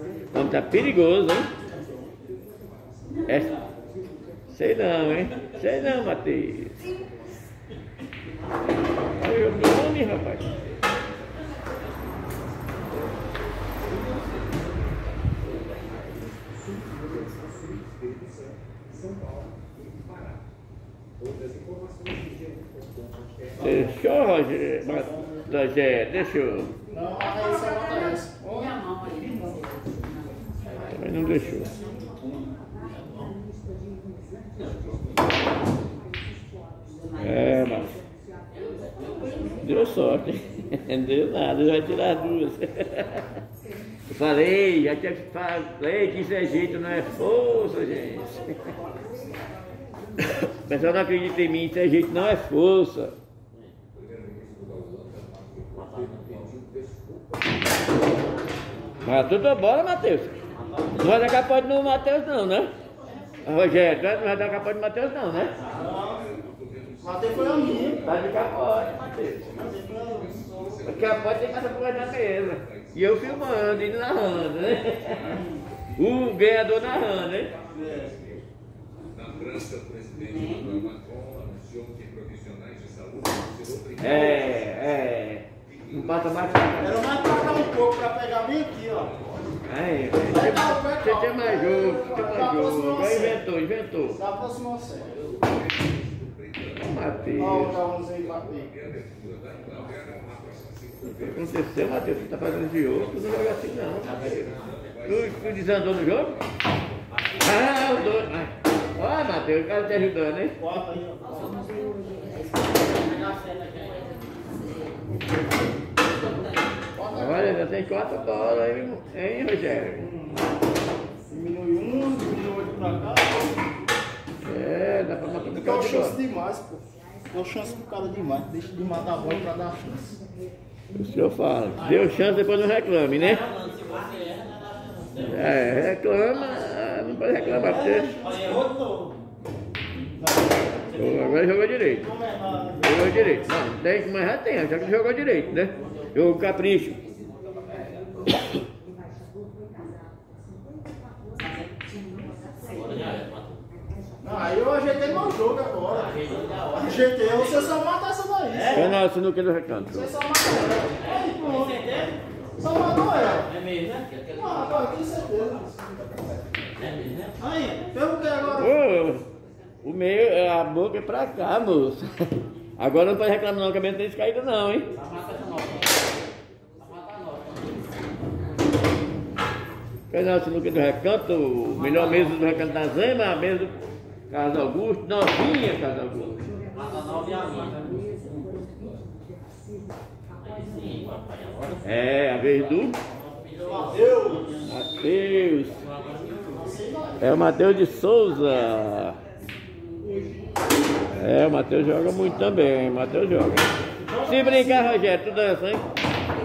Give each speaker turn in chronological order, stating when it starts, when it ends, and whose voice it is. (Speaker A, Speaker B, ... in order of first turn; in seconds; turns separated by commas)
Speaker A: 0.3-1.5, Speaker A: 3.3-3.5, Speaker A: 4.5-6.8, Speaker A: 9.2-10.5, Speaker A: 23.6-26.7, Speaker B: 26.9-28.8, Speaker A: 30.8-31.7, Speaker A: 37.2-38.0, Speaker A: 39.6-43.3, Speaker A: 44.1-48.7, Speaker A: 50.2-53.1, Speaker A: 59.0-60.4, Speaker A: 61.0-62.7, Speaker A: 63.5-65.5, Speaker B: 65.7-66.3, Speaker B: 67.0-68.0, Speaker A: 68.0-69.5, Speaker B: 69.6-70.8, Speaker A: 70.9-75.4, Speaker A: 76.0-77.5, Speaker B: 77.7-78.2, Speaker A: 84.0-87.1, Speaker B: 86.8-89.2, Speaker A: 89.7-94.2, Speaker B: 90.2-93.4, Speaker B: 94.2-95.2, Speaker A: 96.8-97.8, Speaker B: 97.4-98.7, Speaker A: 101.1-104.5, Speaker A: 105.0-106.4, Speaker A: 107.4-110.6, Speaker B: 110.6-111.4, Speaker C: 113.0-114.1, Speaker B: 117.0-117.5, Speaker A: 117.1-120.1, Speaker B: 120.0-120.4, Speaker B: 121.3-123.5, Speaker A: 124.4-126.2, Speaker B: 125.6-130.1, Speaker A: 130.9-133.4, Speaker C: 133.1-135.3, Speaker A: 135.2-138.1, Speaker B: 137.4-139.1, Speaker C: 138.2-138.6, Speaker B: 140.2-143.6, Speaker A: 141.0-142.1, Speaker A: 142.8-147.0, Speaker C: 152.9-153.2, Speaker B: 154.2-159.0, Speaker C: 156.1-157.0, Speaker C: 158.5-158.8, Speaker A: 158.7-160.1, Speaker B: 159.9-161.9, Speaker C: 161.1-162.2, Speaker B: 162.6-163.5, Speaker C: 163.5-164.2, Speaker B: 164.3-165.7, Speaker C: 167.0-167.3, Speaker B: 167.4-168.8, Speaker A: 168.6-169.2, Speaker A: 169.8-172.1, Speaker A: 172.8-174.9, Speaker C: 175.0-175.9, Speaker C: 176.8-177.7, Speaker A: 180.1-186.4, Speaker C: 181.8-182.5, Speaker C: 186.8-188.0, Speaker A: 191.8-193.0, Speaker C: 193.5-193.9, Speaker B: 193.7-194.5, Speaker A: 194.7-195.8, Speaker B: 196.5-197.4, Speaker A: 197.2-199.2, Speaker A: 201.2-203.7, Speaker B: 204.1-205.0, Speaker A: 204.2-205.9